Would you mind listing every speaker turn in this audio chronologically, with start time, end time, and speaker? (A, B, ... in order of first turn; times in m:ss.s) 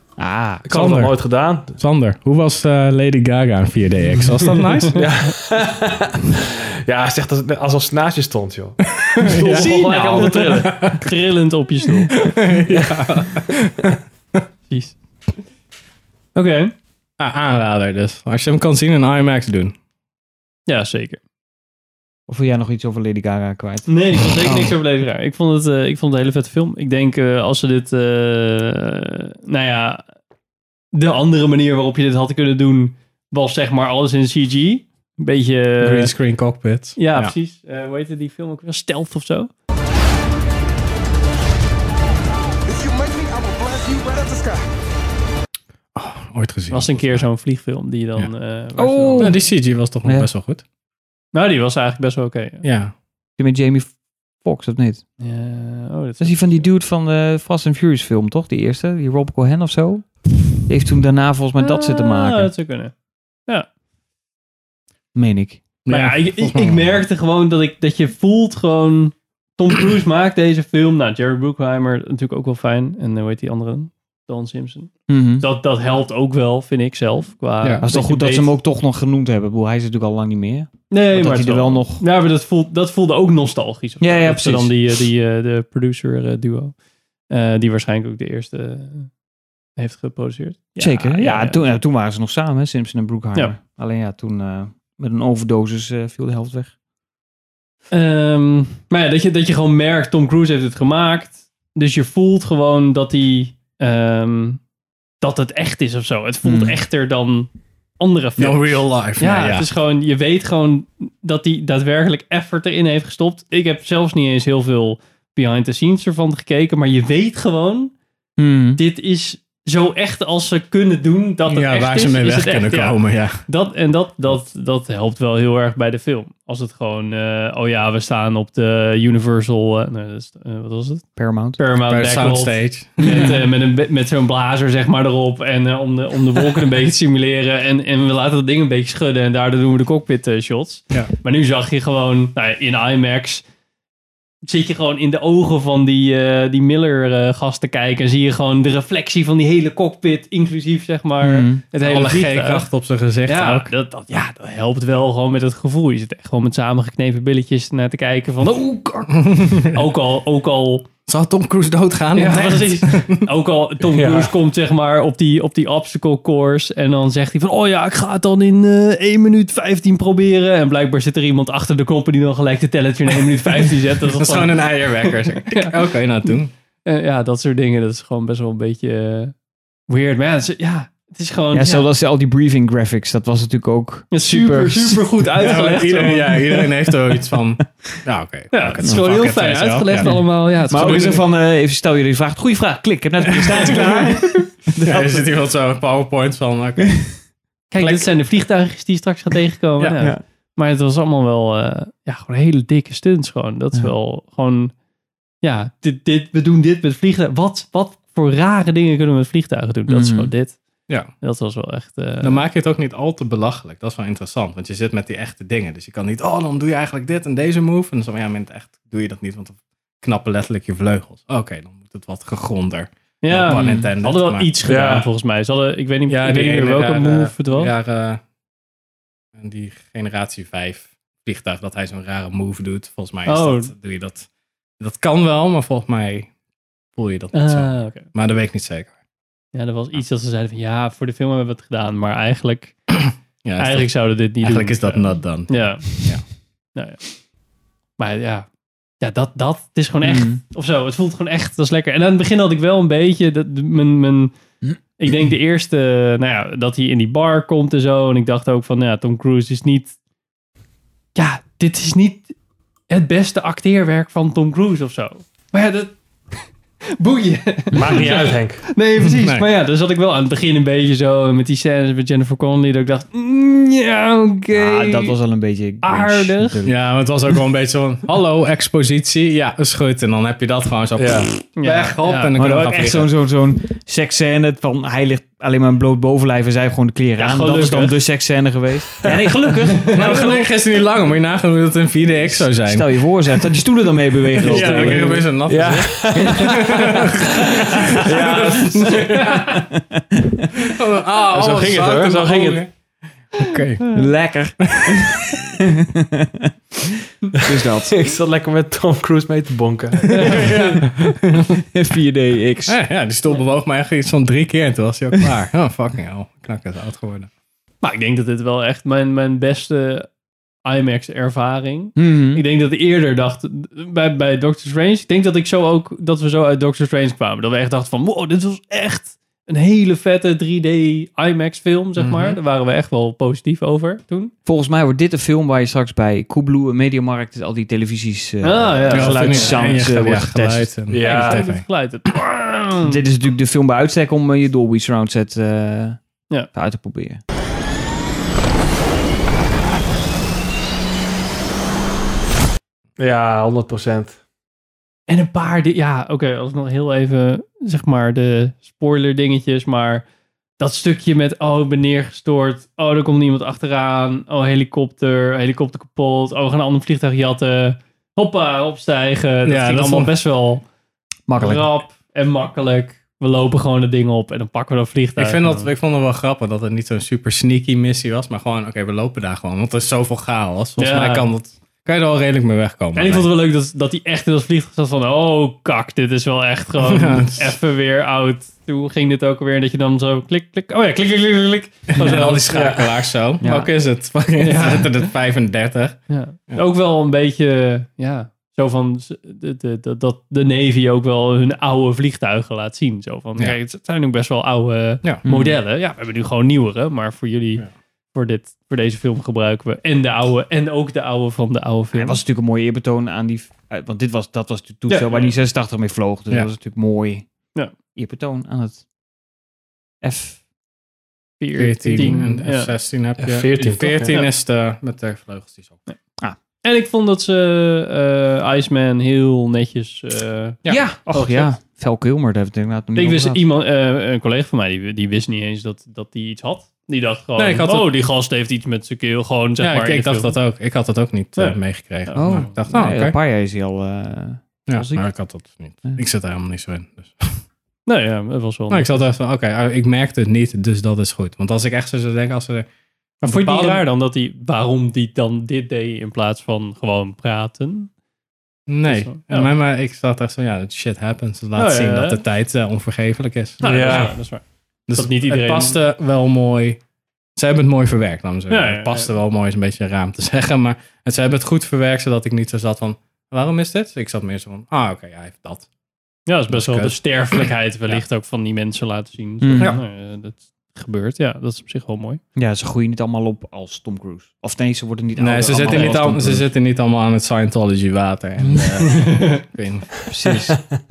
0:00.2-0:01.0 A
0:00.6-0:01.8 B
0:00.7-0:01.1 C
0:01.8-0:05.0 C
0:04.9-0:10.8 B
0:09.1-0:11.1 C
0:09.4-0:12.2 D
0:12.2-0:13.9 C
0:12.7-0:13.0 B
0:14.7-0:15.0 D
0:16.3-0:16.7 D
0:17.2-0:19.7 C
0:20.7-0:21.2 D
0:22.3-0:24.7 A
0:23.9-0:30.0 D
0:30.9-0:36.2 D
0:35.8-0:37.3 C
0:37.0-0:39.5 D
0:42.7-0:44.6 E
0:45.9-0:47.3 C
0:46.7-0:49.3 D
0:48.8-0:50.3 A
0:49.2-0:50.6 C
0:51.3-0:52.6 D
0:52.6-0:52.9 C
0:53.4-0:55.0 A
0:55.2-0:56.7 D
0:56.2-1:02.5 A
1:01.6-1:02.9 D
1:05.1-1:05.6 A
1:05.8-1:07.0 C
1:05.9-1:18.5 D
1:15.1-1:15.4 A
1:17.8-1:22.0 A
1:20.9-1:26.7 D
1:24.0-1:24.8 A
1:27.3-1:29.1 D
1:29.8-1:31.6 D
1:30.8-1:36.7 A
1:37.9-1:44.6 D
1:45.2-1:57.9 D
1:46.4-1:46.8 A
1:48.4-1:49.7 C
1:58.4-1:58.8 A
1:58.8-2:23.4 D
2:01.5-2:03.4 C
2:11.2-2:11.6 A
2:11.8-2:13.4 C
2:13.0-2:13.4 A
2:24.4-2:32.7 D
2:31.2-2:31.6 A
2:31.8-2:33.7 C
2:33.2-2:40.9 D
2:39.3-2:39.6 C
2:41.1-2:43.2 C
2:42.1-2:55.7 D
2:43.9-2:44.3 B
2:54.1-2:56.5 C
2:56.8-2:59.3 D
2:59.9-3:01.8 D
3:01.5-3:05.3 A
3:04.1-3:06.5 D
3:05.4-3:11.2 C
3:08.5-3:11.2 D
3:10.0-3:15.2 A
3:13.5-3:14.4 D
3:14.8-3:17.2 C
3:17.7-3:24.7 D
3:17.8-3:18.1 C
3:25.4-3:30.6 D
3:29.9-3:30.3 A
3:31.2-3:32.4 D
3:32.2-3:44.5 C
3:43.2-3:47.7 D
3:43.5-3:43.9 A
3:44.6-3:45.1 B
3:46.1-3:48.2 C
3:49.3-3:54.3 C
3:53.2-3:53.7 D
3:54.8-3:56.3 C
3:56.9-3:58.9 C
3:57.3-3:58.0 D
3:59.5-4:02.9 D
4:03.4-4:06.2 C
4:03.6-4:07.2 D
4:08.0-4:08.4 D
4:09.0-4:14.3 D
4:10.0-4:10.4 A
4:15.0-4:19.9 D
4:21.2-4:22.3 D
4:22.9-4:35.2 D
4:27.7-4:28.6 B
4:29.0-4:29.4 C
4:34.5-4:36.8 A
4:35.8-4:36.6 D
4:36.6-4:43.1 C
4:41.0-4:41.3 B
4:41.6-4:42.3 D
4:42.3-4:50.4 A
4:47.2-4:48.0 D
4:49.5-4:50.3 D
4:49.9-4:53.1 C
4:52.3-4:55.3 A
4:54.4-4:59.6 C
4:54.5-4:55.0 D
4:55.4-4:56.8 B
4:56.2-4:56.9 A
4:58.0-4:59.1 B
5:00.6-5:02.7 C
5:01.3-5:02.6 B
5:03.3-5:05.0 C
5:03.9-5:05.3 A
5:06.0-5:06.5 A
5:07.3-5:08.0 A
5:07.9-5:10.2 B
5:10.2-5:11.3 C
5:10.2-5:10.8 D
5:11.7-5:12.8 A
5:12.6-5:17.3 C
5:17.8-5:20.1 D
5:20.6-5:34.3 D
5:22.0-5:22.4 A
5:32.0-5:32.4 C
5:34.4-5:40.7 A
5:38.4-5:39.9 D
5:38.9-5:41.6 C
5:40.9-5:41.4 B
5:41.0-5:43.0 D
5:42.8-5:47.2 A
5:53.0-5:54.2 B
5:55.1-6:00.0 D
6:00.6-6:10.6 D
6:09.4-6:10.1 C
6:11.3-6:11.7 A
6:11.4-6:15.7 D
6:15.2-6:23.3 C
6:20.8-6:21.3 D
6:22.9-6:32.5 D
6:26.8-6:27.5 C
6:31.9-6:36.6 C
6:32.5-6:32.8 B
6:33.4-6:33.7 A
6:34.4-6:34.9 D
6:36.1-6:52.2 D
6:45.2-6:45.6 A
6:51.9-6:57.3 A
6:54.9-6:55.3 D
6:57.9-6:58.8 A
7:00.0-7:00.4 A
7:01.4-7:02.7 D
7:01.5-7:05.8 C
7:02.0-7:02.3 A
7:03.2-7:04.2 B
7:06.6-7:10.6 D
7:10.7-7:13.4 A
7:11.1-7:11.5 D
7:12.9-7:20.3 D
7:17.4-7:17.9 C
7:19.6-7:23.2 C
7:21.4-7:22.5 D
7:22.1-7:25.1 A
7:24.7-7:27.4 C
7:27.9-7:29.1 D
7:28.7-7:32.7 C
7:33.2-7:33.8 C
7:33.2-7:37.9 D
7:38.7-7:44.2 C
7:38.9-7:39.5 D
7:41.6-7:42.2 D
7:43.6-7:45.8 D
7:43.6-7:44.1 B
7:44.9-7:46.8 C
7:47.4-7:55.7 C
7:48.5-7:49.1 D
7:56.3-8:02.2 D
7:56.5-7:58.0 C
7:59.4-7:59.7 A
8:02.4-8:06.5 A
8:05.2-8:10.0 C
8:05.7-8:06.0 D
8:08.4-8:08.8 A
8:08.9-8:09.4 D
8:10.1-8:10.6 A